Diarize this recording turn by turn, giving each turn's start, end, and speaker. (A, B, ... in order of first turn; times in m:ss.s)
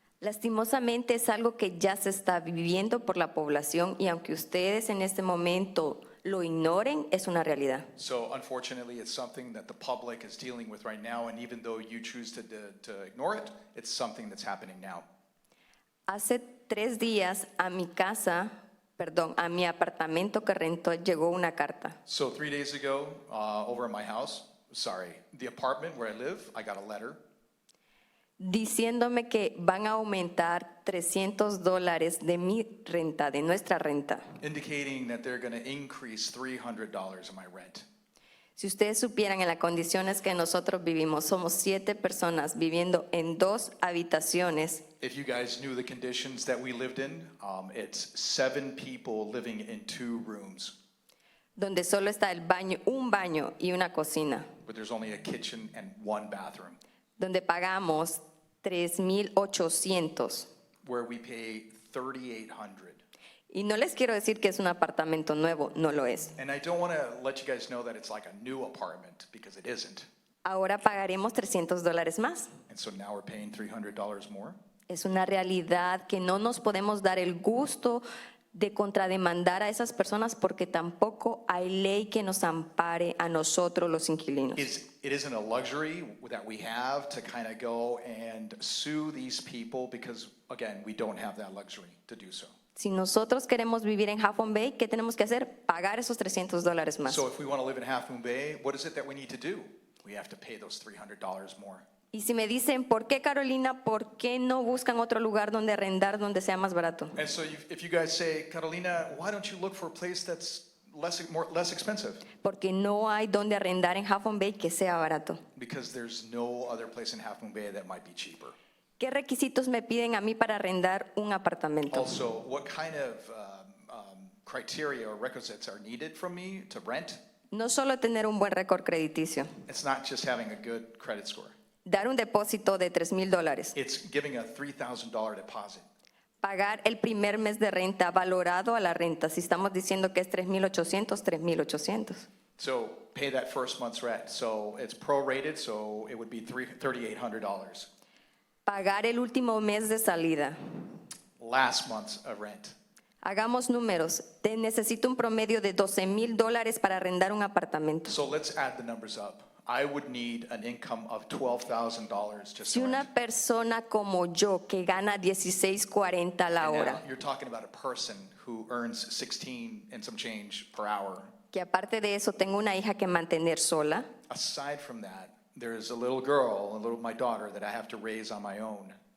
0:00.2-0:07.9 A
0:08.0-0:15.1 B
0:16.1-0:22.0 A
0:22.1-0:27.2 B
0:28.4-0:34.2 A
0:34.4-0:37.9 B
0:38.6-0:44.8 A
0:45.0-0:50.8 B
0:51.6-0:54.5 A
0:54.6-0:56.8 B
0:57.2-1:00.5 A
1:00.8-1:03.0 B
1:03.5-1:06.4 A
1:06.4-1:10.1 B
1:10.4-1:12.5 A
1:12.7-1:14.6 B
1:14.9-1:18.0 A
1:18.6-1:24.7 A
1:24.6-1:32.5 B
1:32.8-1:37.2 A
1:37.1-1:41.9 B
1:42.1-1:47.2 A
1:47.2-1:52.3 B
1:52.4-1:55.4 A
1:55.6-1:58.6 B
1:59.0-2:02.2 A
2:01.9-2:07.2 B
2:07.5-2:09.5 A
2:09.7-2:11.6 B
2:11.9-2:13.7 A
2:13.8-2:15.9 B
2:16.4-2:22.3 A
2:22.6-2:27.9 B
2:28.7-2:30.6 A
2:31.4-2:32.8 B
2:33.2-2:38.2 A
2:38.1-2:43.1 B
2:42.6-2:47.0 A
2:46.6-2:51.3 B
2:51.5-2:54.1 A
2:54.3-2:59.0 B